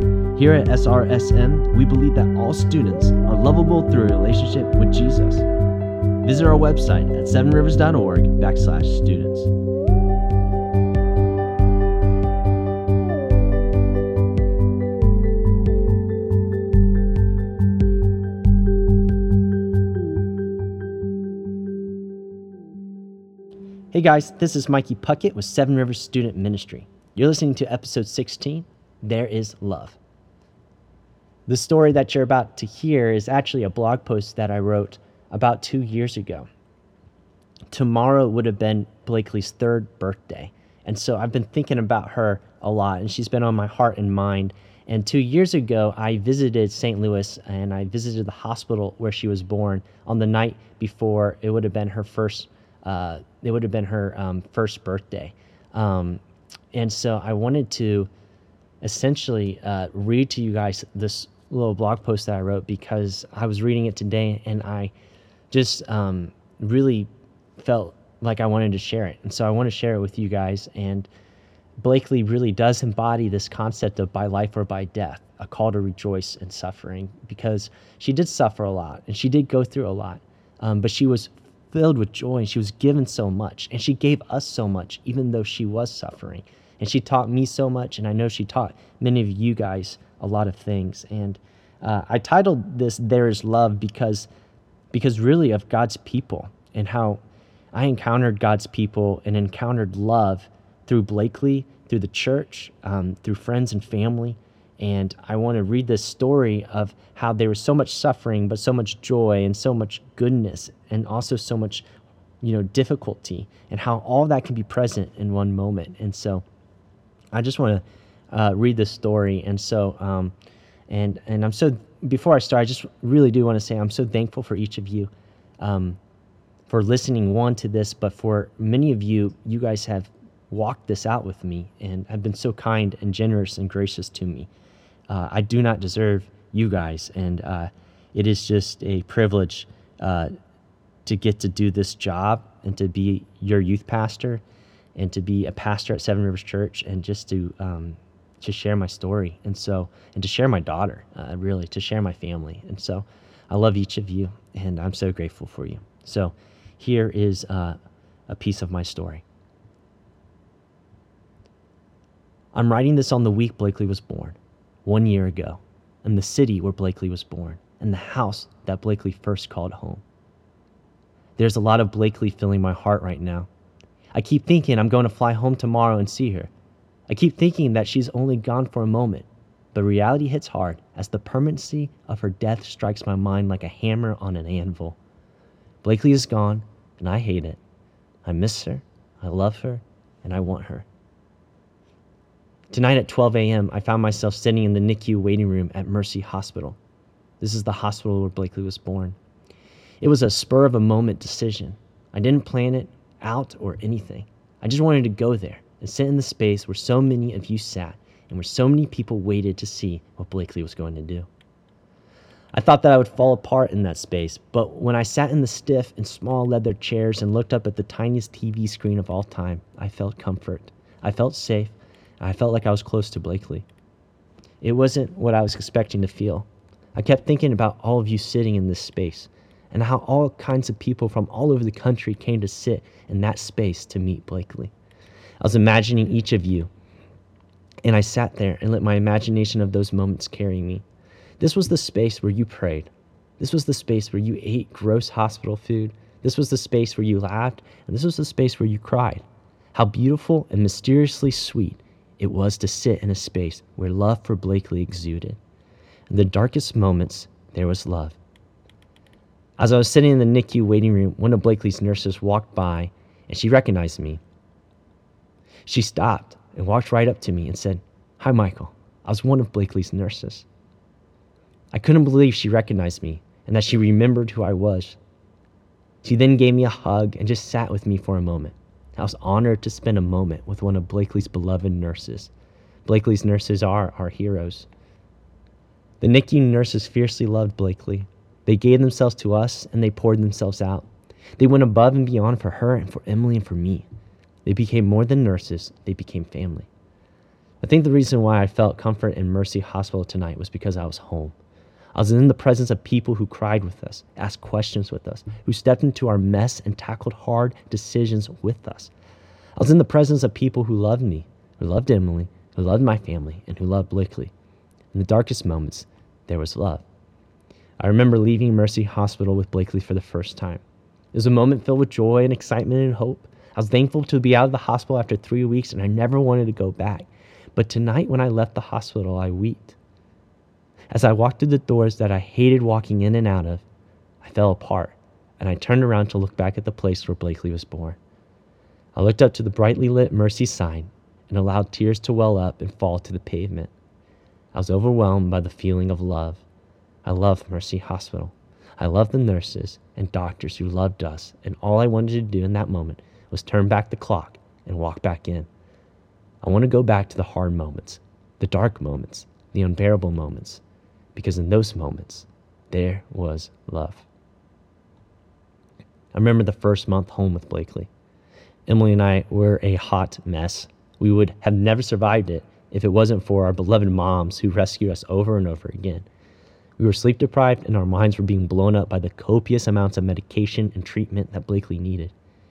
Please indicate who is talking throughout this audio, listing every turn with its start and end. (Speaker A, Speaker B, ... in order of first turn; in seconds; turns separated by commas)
Speaker A: 0.3-5.5, Speaker A: 6.2-9.5, Speaker A: 23.9-30.0, Speaker A: 31.5-36.5, Speaker A: 37.7-56.2, Speaker A: 56.7-58.1, Speaker A: 58.8-64.9, Speaker A: 65.5-71.1, Speaker A: 71.8-94.3, Speaker A: 94.9-97.2, Speaker A: 97.7-111.9, Speaker A: 112.4-116.4, Speaker A: 117.3-120.3, Speaker A: 120.9-126.0, Speaker A: 126.7-134.5, Speaker A: 135.1-140.3, Speaker A: 141.1-144.4, Speaker A: 145.0-157.8, Speaker A: 158.3-159.2, Speaker A: 162.5-170.0, Speaker A: 171.4-173.5, Speaker A: 174.1-176.5, Speaker A: 177.1-185.0, Speaker A: 185.8-187.6, Speaker A: 188.2-190.9, Speaker A: 192.7-196.8, Speaker A: 197.4-199.2, Speaker A: 200.0-211.3, Speaker A: 212.5-223.7, Speaker A: 224.6-234.7, Speaker A: 235.4-236.7, Speaker A: 237.8-240.8, Speaker A: 241.4-249.2, Speaker A: 249.7-255.4, Speaker A: 256.1-258.2, Speaker A: 259.6-264.2, Speaker A: 265.6-270.5, Speaker A: 271.7-275.0, Speaker A: 276.0-282.3, Speaker A: 282.9-284.7, Speaker A: 286.0-293.9, Speaker A: 294.4-296.7, Speaker A: 297.6-301.4, Speaker A: 301.9-308.9, Speaker A: 309.6-314.3, Speaker A: 314.9-316.9, Speaker A: 317.8-320.6, Speaker A: 321.1-329.8, Speaker A: 330.9-333.6, Speaker A: 334.2-338.0, Speaker A: 338.9-343.7, Speaker A: 344.5-346.4, Speaker A: 347.1-355.5, Speaker A: 356.4-360.6, Speaker A: 361.1-364.1, Speaker A: 366.1-367.9, Speaker A: 368.7-376.1, Speaker A: 376.8-382.1